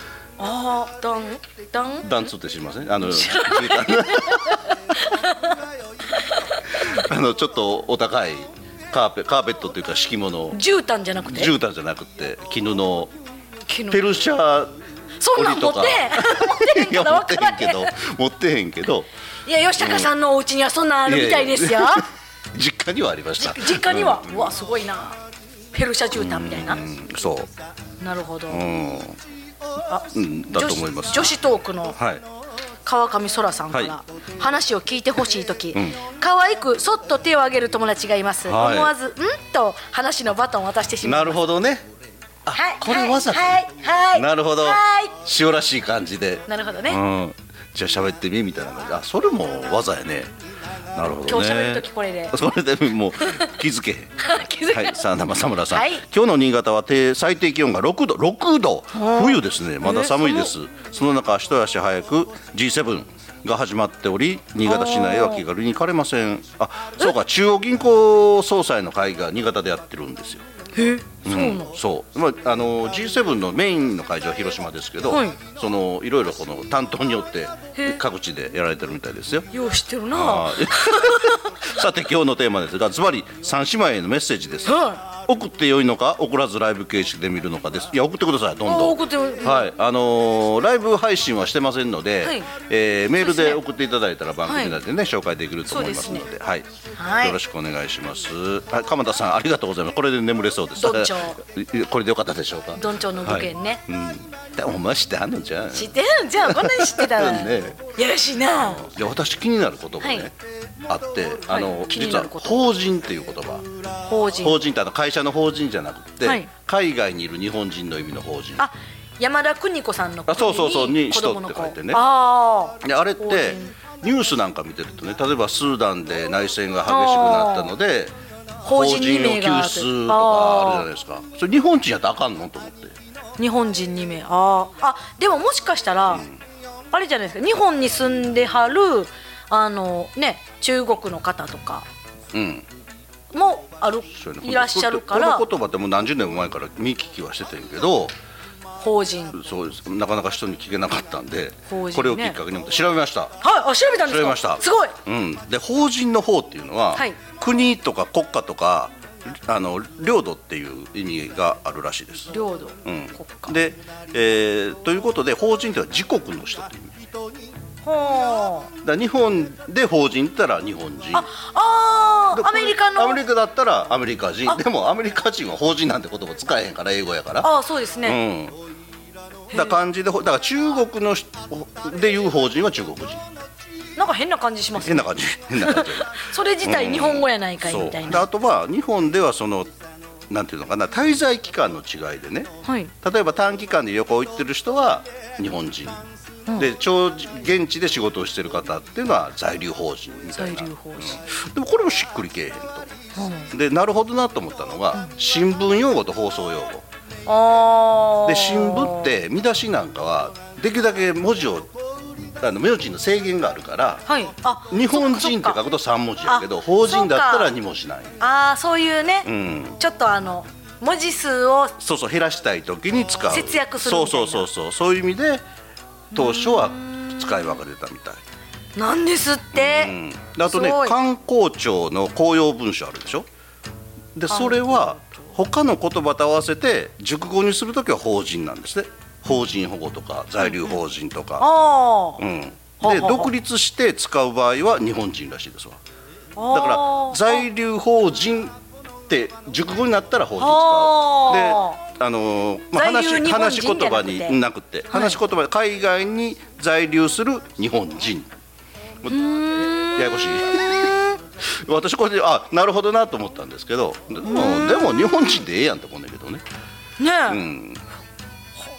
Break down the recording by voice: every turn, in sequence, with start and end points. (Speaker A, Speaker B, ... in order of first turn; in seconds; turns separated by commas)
Speaker A: 0.4-2.1, Speaker B: 2.0-4.6, Speaker A: 3.0-5.6, Speaker A: 6.2-6.5, Speaker B: 6.8-10.6, Speaker A: 10.5-11.5, Speaker B: 11.2-13.1, Speaker A: 13.7-14.0, Speaker B: 13.9-14.7, Speaker A: 15.2-17.9, Speaker B: 15.3-19.1, Speaker A: 19.4-22.1, Speaker B: 19.8-20.1, Speaker B: 21.1-24.5, Speaker A: 23.4-25.2, Speaker A: 25.7-26.8, Speaker B: 26.1-27.5, Speaker A: 28.0-28.6, Speaker B: 28.5-29.2, Speaker A: 29.9-32.0, Speaker B: 30.1-31.4, Speaker B: 31.9-32.2, Speaker A: 32.8-41.4, Speaker B: 38.4-38.9, Speaker B: 41.0-41.9, Speaker B: 42.4-50.3, Speaker A: 42.5-45.1, Speaker A: 46.5-47.0, Speaker B: 50.9-70.4, Speaker A: 51.2-52.4, Speaker A: 53.2-53.5, Speaker A: 54.2-55.0, Speaker A: 55.7-56.0, Speaker A: 58.9-60.5, Speaker A: 64.7-65.4, Speaker A: 70.8-71.7, Speaker B: 71.2-79.5, Speaker A: 75.1-75.4, Speaker A: 77.7-78.0, Speaker A: 79.5-81.5, Speaker B: 80.1-96.7, Speaker A: 84.6-85.0, Speaker A: 88.6-89.7, Speaker A: 92.2-92.5, Speaker A: 93.2-93.6, Speaker A: 94.4-94.8, Speaker A: 95.7-96.3, Speaker A: 97.0-97.4, Speaker B: 97.2-107.9, Speaker A: 100.8-101.4, Speaker A: 102.8-103.8, Speaker A: 105.7-108.9, Speaker B: 108.6-110.3, Speaker A: 110.0-110.3, Speaker B: 110.8-113.7, Speaker A: 111.5-112.7, Speaker A: 114.0-114.6, Speaker B: 114.4-118.7, Speaker A: 116.2-116.5, Speaker A: 118.6-123.7, Speaker B: 120.3-122.0, Speaker B: 122.8-133.0, Speaker A: 126.9-127.7, Speaker A: 128.6-130.9, Speaker A: 133.4-136.2, Speaker B: 136.1-136.4, Speaker A: 136.9-141.8, Speaker B: 142.3-142.7, Speaker A: 143.3-145.5, Speaker B: 144.1-148.2, Speaker A: 148.8-149.4, Speaker B: 149.3-153.4, Speaker A: 151.7-152.4, Speaker A: 153.4-155.0, Speaker B: 154.1-162.3, Speaker A: 162.3-163.6, Speaker B: 162.8-167.1, Speaker A: 167.8-168.7, Speaker B: 168.8-171.3, Speaker A: 171.1-173.2, Speaker B: 172.3-177.5, Speaker A: 177.4-178.2, Speaker B: 178.0-178.6, Speaker A: 179.5-179.8, Speaker B: 179.5-183.2, Speaker A: 183.9-188.2, Speaker B: 184.8-189.7, Speaker B: 190.3-202.9, Speaker A: 192.6-192.9, Speaker A: 200.3-201.2, Speaker A: 203.1-203.5, Speaker B: 203.5-206.8, Speaker A: 207.2-209.2, Speaker B: 208.2-211.8, Speaker B: 212.4-214.0, Speaker A: 214.1-215.6, Speaker B: 214.7-218.2, Speaker A: 216.2-217.5, Speaker A: 218.2-221.7, Speaker B: 219.2-219.8, Speaker B: 221.8-225.4, Speaker A: 223.3-224.5, Speaker A: 226.1-227.4, Speaker B: 226.1-228.2, Speaker A: 228.8-231.0, Speaker B: 229.5-233.3, Speaker B: 234.1-241.5, Speaker A: 234.3-235.3, Speaker A: 240.4-240.8, Speaker A: 241.4-242.2, Speaker B: 242.2-245.8, Speaker A: 242.8-243.3, Speaker A: 246.3-247.4, Speaker B: 246.5-258.3, Speaker A: 250.4-251.8, Speaker A: 252.7-254.4, Speaker A: 254.9-255.2, Speaker A: 259.1-261.2, Speaker B: 259.7-266.4, Speaker A: 264.2-265.1, Speaker A: 267.0-267.4, Speaker B: 267.3-267.8